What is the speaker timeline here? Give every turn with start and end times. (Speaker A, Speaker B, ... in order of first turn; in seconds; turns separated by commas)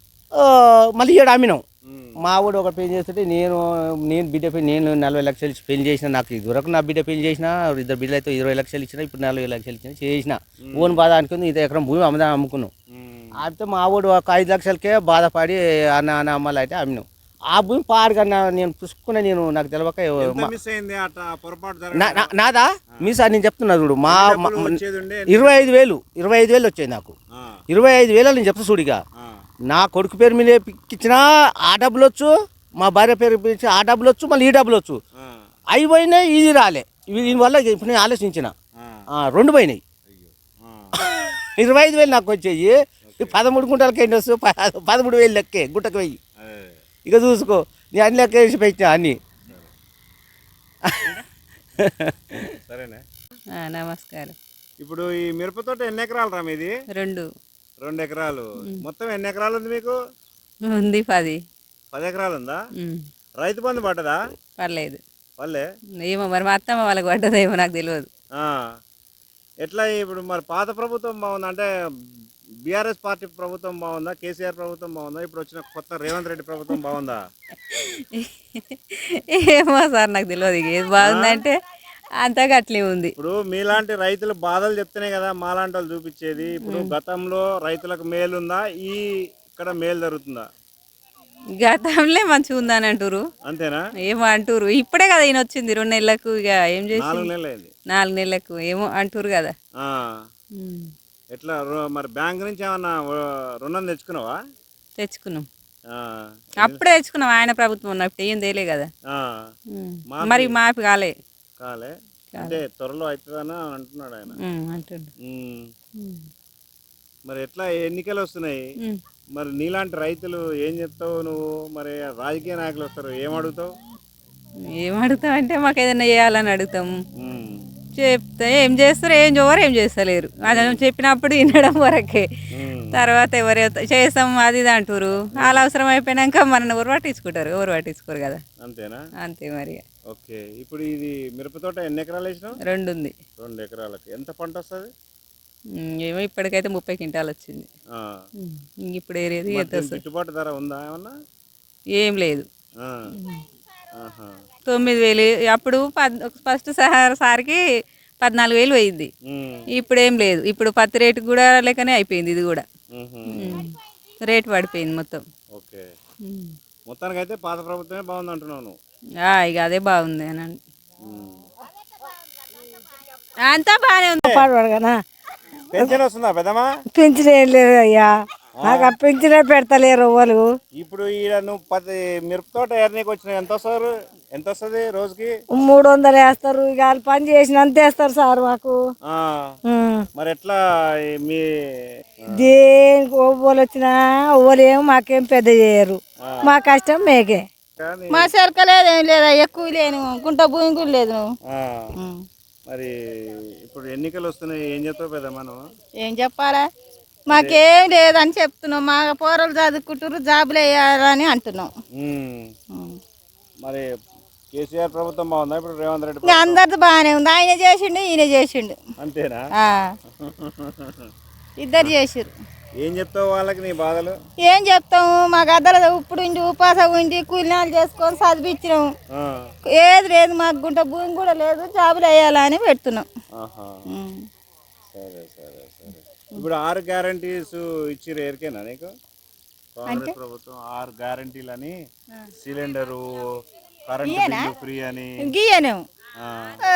Speaker A: 0.4-1.6, Speaker B: 1.9-2.2, Speaker A: 2.2-12.7, Speaker B: 10.7-11.1, Speaker B: 12.9-13.3, Speaker A: 13.4-20.5, Speaker B: 20.2-22.3, Speaker A: 21.9-24.8, Speaker B: 24.1-25.7, Speaker A: 25.3-27.1, Speaker A: 27.7-29.0, Speaker A: 29.7-35.0, Speaker A: 35.7-38.5, Speaker B: 38.8-39.0, Speaker A: 39.1-39.8, Speaker B: 40.1-41.0, Speaker A: 41.2-46.2, Speaker B: 43.1-43.4, Speaker B: 46.4-46.8, Speaker A: 47.1-49.1, Speaker A: 51.8-52.4, Speaker B: 52.7-53.0, Speaker C: 53.6-54.3, Speaker B: 54.8-56.7, Speaker B: 57.8-60.0, Speaker C: 61.0-61.4, Speaker B: 61.9-62.6, Speaker B: 63.4-64.2, Speaker C: 64.6-65.0, Speaker B: 65.4-65.6, Speaker C: 66.1-68.1, Speaker B: 68.4-68.6, Speaker B: 69.6-71.7, Speaker B: 72.7-77.2, Speaker C: 79.5-81.5, Speaker B: 81.0-81.4, Speaker C: 82.2-83.1, Speaker B: 83.2-89.0, Speaker B: 89.5-90.5, Speaker C: 91.8-93.2, Speaker B: 93.5-93.8, Speaker C: 94.1-97.2, Speaker B: 96.9-97.7, Speaker C: 98.0-99.5, Speaker B: 99.8-100.1, Speaker B: 101.3-104.4, Speaker C: 105.2-105.5, Speaker B: 105.9-106.8, Speaker C: 106.7-108.9, Speaker C: 109.8-111.1, Speaker B: 110.1-110.6, Speaker B: 111.6-114.4, Speaker C: 114.5-115.1, Speaker B: 115.2-115.7, Speaker B: 117.3-118.6, Speaker B: 119.3-123.7, Speaker C: 124.9-126.9, Speaker B: 127.2-127.6, Speaker C: 128.1-132.2, Speaker B: 130.5-130.8, Speaker B: 132.5-133.1, Speaker C: 133.0-138.4, Speaker B: 135.4-135.7, Speaker B: 138.6-139.0, Speaker C: 139.3-139.8, Speaker B: 140.1-142.6, Speaker C: 142.7-143.1, Speaker B: 143.4-144.9, Speaker C: 146.2-147.7, Speaker B: 148.0-148.2, Speaker C: 148.4-149.9, Speaker B: 149.5-151.1, Speaker C: 152.0-152.4, Speaker B: 154.0-154.3, Speaker C: 155.1-157.6, Speaker C: 158.3-159.1, Speaker B: 159.3-159.6, Speaker C: 159.8-162.7, Speaker B: 162.9-163.6, Speaker C: 164.3-165.2, Speaker B: 165.6-165.8, Speaker B: 166.9-168.8, Speaker C: 169.5-170.6, Speaker B: 171.1-171.4, Speaker C: 173.5-174.2, Speaker B: 174.2-174.5, Speaker D: 174.3-175.0, Speaker B: 175.7-176.7, Speaker D: 176.9-180.5, Speaker B: 178.6-179.0, Speaker B: 180.8-185.3, Speaker D: 185.5-188.8, Speaker B: 189.1-189.5, Speaker D: 189.7-190.0, Speaker B: 190.2-190.6, Speaker B: 192.3-192.5, Speaker D: 192.3-197.5, Speaker B: 196.2-196.6, Speaker B: 197.8-198.3, Speaker E: 198.1-201.2, Speaker B: 201.5-202.0, Speaker B: 203.7-205.6, Speaker E: 206.0-206.6, Speaker B: 207.3-207.6, Speaker E: 207.3-211.7, Speaker B: 212.0-212.5, Speaker E: 212.7-213.0, Speaker B: 214.5-216.6, Speaker E: 216.2-218.8, Speaker B: 219.0-219.5, Speaker B: 220.2-221.1, Speaker E: 221.6-222.3, Speaker B: 222.8-224.2, Speaker E: 224.4-228.9, Speaker E: 229.8-233.1, Speaker B: 233.3-233.9, Speaker E: 233.9-234.2, Speaker B: 234.9-238.9, Speaker B: 239.8-241.7, Speaker E: 239.9-240.1, Speaker B: 242.4-243.0, Speaker B: 243.9-245.3, Speaker E: 244.0-244.5, Speaker E: 245.3-245.8, Speaker B: 246.2-246.6